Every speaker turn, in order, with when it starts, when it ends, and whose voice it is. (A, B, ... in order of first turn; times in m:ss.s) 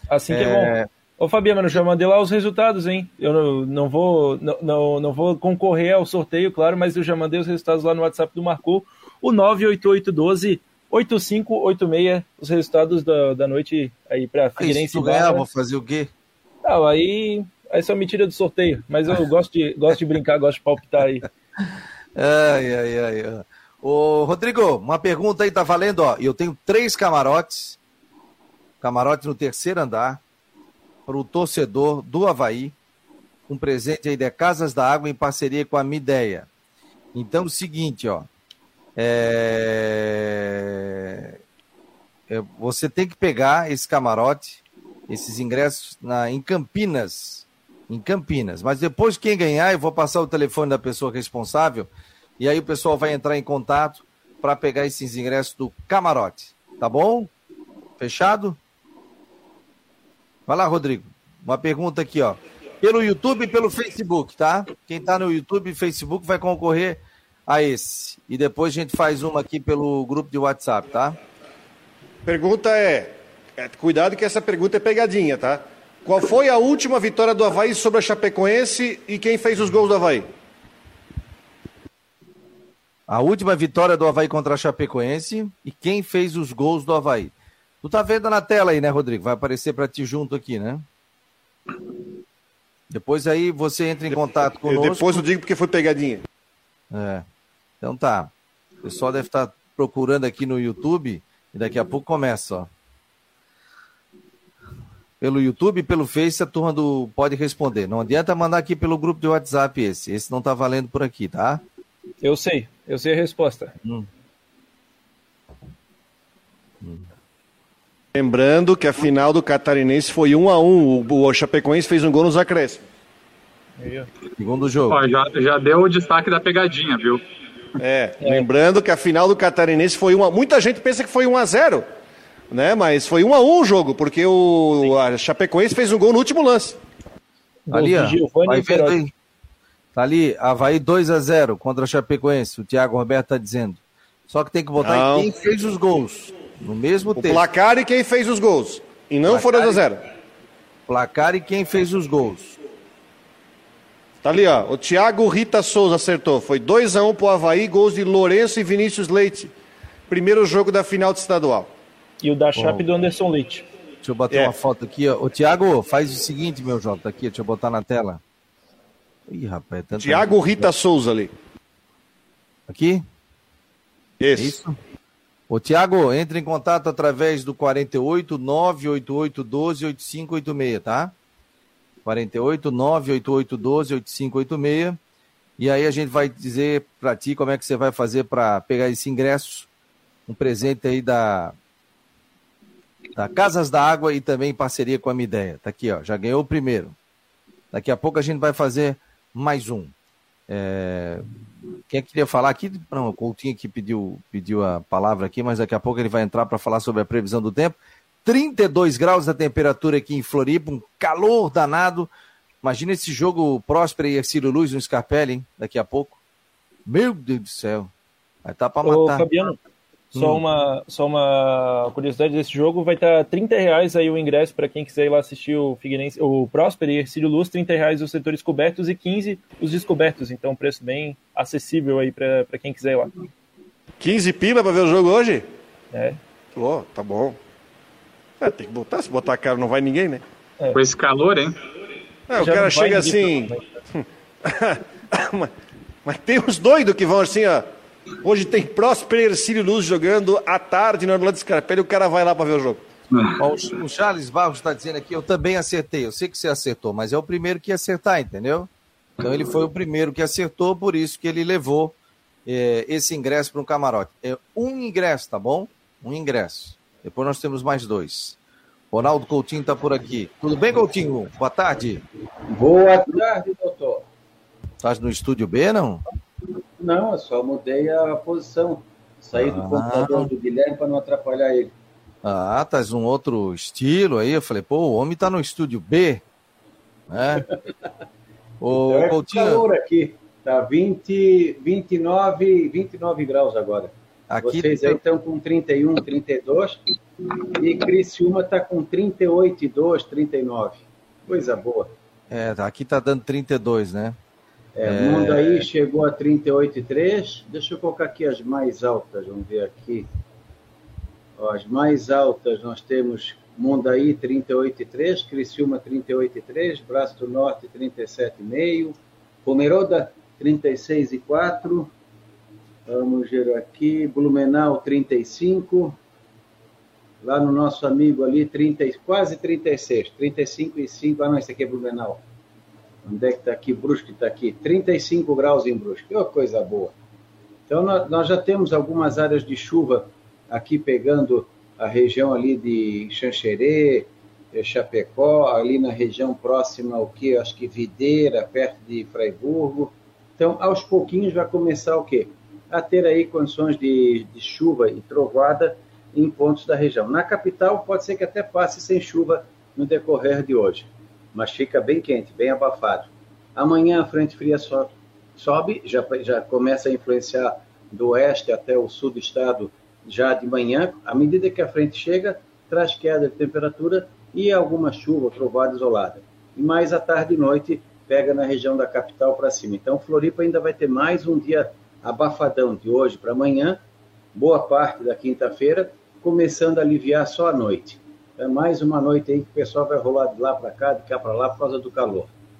0:00.1-0:15.5 A
0:00.3-0:00.9 B
0:14.6-0:16.1 B
0:16.6-0:21.3 A
0:22.2-0:27.8 B
0:28.8-0:30.2 B
0:31.1-0:32.7 B
0:33.5-0:36.5 B
0:37.1-0:38.3 B
0:39.0-0:41.4 B
0:42.3-0:57.3 B
0:58.0-0:58.6 B
1:00.5-1:11.2 B
1:12.2-1:20.3 C
1:23.1-1:30.8 B
1:32.9-1:35.2 B
1:34.6-1:36.2 C
1:36.9-1:37.2 B
1:37.8-1:38.3 B
1:38.8-1:42.7 B
1:45.2-1:51.6 B
1:52.2-1:53.7 A
1:56.8-1:57.1 B
1:58.1-2:02.8 C
2:03.8-2:04.1 A
2:04.4-2:05.0 B
2:04.9-2:07.2 D
2:07.8-2:11.9 C
2:12.5-2:16.8 C
2:17.7-2:19.0 A
2:17.7-2:19.1 B
2:20.0-2:27.4 B
2:24.8-2:25.3 C
2:27.2-2:30.0 C
2:29.3-2:29.8 B
2:30.9-2:32.6 B
2:34.2-2:39.5 C
2:40.1-2:41.7 C
2:42.2-2:43.7 A
2:42.6-2:42.9 B
2:44.0-2:48.2 B
2:49.3-2:50.7 B
2:50.0-2:51.3 C
2:52.7-2:53.0 B
2:54.2-2:54.6 C
2:54.4-2:54.8 B
2:55.5-3:01.1 B
3:02.0-3:05.0 B
3:05.6-3:09.7 B
3:10.3-3:11.6 B
3:13.2-3:17.0 B
3:17.7-3:19.9 B
3:20.5-3:21.2 B
3:21.9-3:32.1 B
3:32.6-3:36.2 B
3:36.9-3:37.9 B
3:38.4-3:39.3 B
3:38.8-3:39.6 A
3:40.1-3:53.1 A
3:40.1-3:40.4 B
3:54.0-3:55.5 C
3:55.9-3:56.2 A
3:56.6-3:57.4 C
3:58.4-4:00.2 C
4:00.7-4:01.6 D
4:02.3-4:05.5 C
4:02.4-4:03.6 A
4:06.0-4:07.7 C
4:08.2-4:12.8 C
4:13.4-4:18.7 B
4:19.2-4:28.4 B
4:28.9-4:32.0 B
4:32.5-4:34.1 E
4:34.8-4:36.0 B
4:36.8-4:41.7 E
4:39.3-4:40.3 B
4:42.2-4:46.2 B
4:47.1-4:47.5 B
4:48.6-4:49.7 B
4:48.8-4:56.8 E
4:54.3-4:55.0 B
4:57.5-5:01.9 E
5:02.3-5:04.2 B
5:04.8-5:10.1 E
5:04.8-5:05.7 B
5:11.4-5:21.9 E
5:22.9-5:26.0 E
5:27.2-5:32.2 E
5:33.0-5:37.0 E
5:37.7-6:23.8 E
6:24.4-6:32.3 E